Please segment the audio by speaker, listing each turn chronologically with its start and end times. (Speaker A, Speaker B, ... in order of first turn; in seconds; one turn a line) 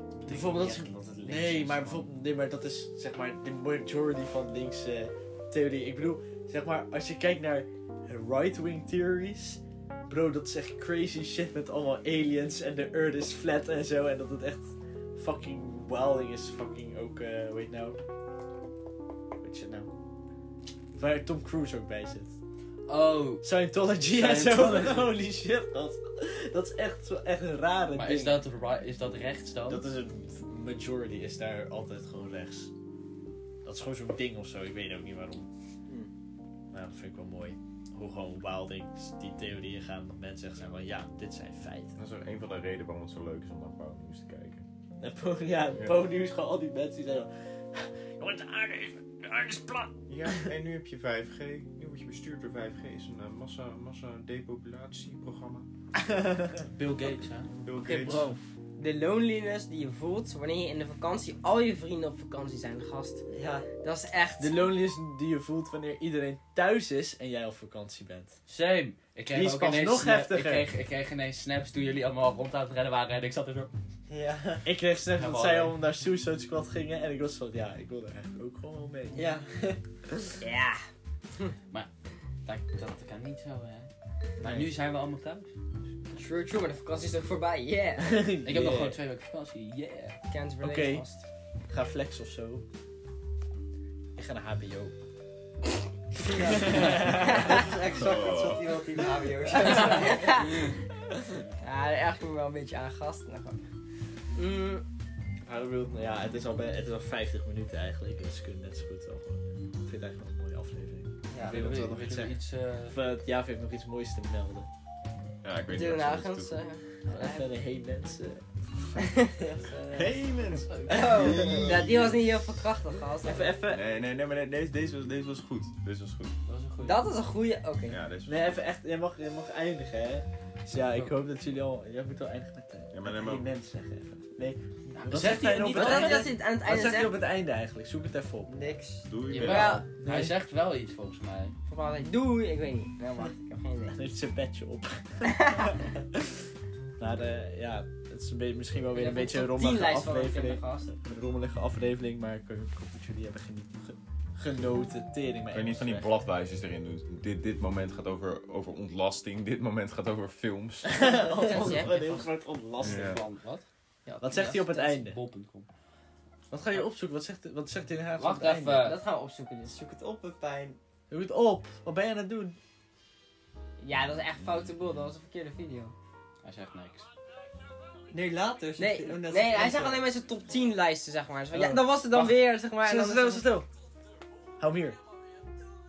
Speaker A: 0.2-2.1
Speaker B: 0.3-18.0
Speaker B: 19.4-19.9
Speaker B: 21.0-22.4
Speaker A: 22.9-25.1
Speaker B: 23.4-28.4
Speaker A: 27.9-29.9
Speaker B: 29.7-32.7
Speaker B: 33.6-35.5
Speaker B: 36.7-41.9
Speaker C: 42.0-44.6
Speaker B: 45.0-50.5
Speaker C: 50.1-55.7
Speaker B: 56.1-56.5
Speaker A: 56.6-57.5
Speaker C: 57.5-58.3
Speaker D: 57.8-63.2
Speaker E: 63.3-63.7
Speaker D: 63.8-64.6
Speaker B: 64.4-68.4
Speaker A: 68.5-73.7
Speaker B: 69.3-70.7
Speaker E: 74.1-74.7
Speaker B: 74.7-79.4
Speaker A: 75.2-75.8
Speaker E: 79.1-79.8
Speaker D: 80.4-80.8
Speaker A: 82.5-85.5
Speaker E: 84.4-84.7
Speaker D: 86.2-88.2
Speaker B: 88.0-89.0
Speaker A: 88.4-90.2
Speaker D: 90.3-91.2
Speaker B: 90.6-91.1
Speaker B: 91.7-92.7
Speaker B: 94.2-95.0
Speaker B: 96.1-97.8
Speaker E: 96.2-100.5
Speaker D: 97.0-97.7
Speaker C: 97.9-99.1
Speaker D: 99.5-100.7
Speaker D: 101.6-103.6
Speaker D: 104.3-104.8
Speaker B: 105.4-112.4
Speaker E: 111.3-111.6
Speaker A: 111.4-113.0
Speaker B: 112.9-114.7
Speaker C: 115.4-116.6
Speaker D: 115.7-117.5
Speaker B: 117.1-119.0
Speaker D: 119.0-119.4
Speaker E: 119.4-119.8
Speaker B: 119.7-121.8
Speaker C: 120.6-122.2
Speaker A: 120.7-121.2
Speaker D: 120.9-123.6
Speaker B: 123.2-123.8
Speaker C: 123.7-126.3
Speaker A: 126.5-127.0
Speaker D: 126.8-128.0
Speaker C: 127.9-128.6
Speaker B: 128.3-138.7
Speaker A: 130.8-131.2
Speaker C: 132.9-133.5
Speaker A: 135.0-136.3
Speaker D: 135.1-137.2
Speaker E: 138.5-139.1
Speaker C: 139.1-139.9
Speaker A: 139.3-141.6
Speaker D: 139.4-139.8
Speaker B: 139.5-140.4
Speaker D: 141.7-143.9
Speaker B: 143.9-146.4
Speaker D: 145.2-145.8
Speaker B: 147.0-156.1
Speaker D: 148.9-150.9
Speaker C: 155.5-161.1
Speaker B: 160.8-163.2
Speaker D: 161.4-162.2
Speaker A: 161.6-163.7
Speaker C: 162.8-163.2
Speaker D: 164.1-165.0
Speaker B: 164.2-165.2
Speaker A: 164.8-165.7
Speaker B: 166.5-168.9
Speaker A: 168.2-169.0
Speaker D: 168.8-169.7
Speaker E: 169.7-170.8
Speaker B: 171.1-172.6
Speaker D: 173.8-175.9
Speaker A: 176.4-177.1
Speaker E: 178.1-180.1
Speaker D: 178.8-183.6
Speaker B: 181.5-183.7
Speaker B: 184.6-185.0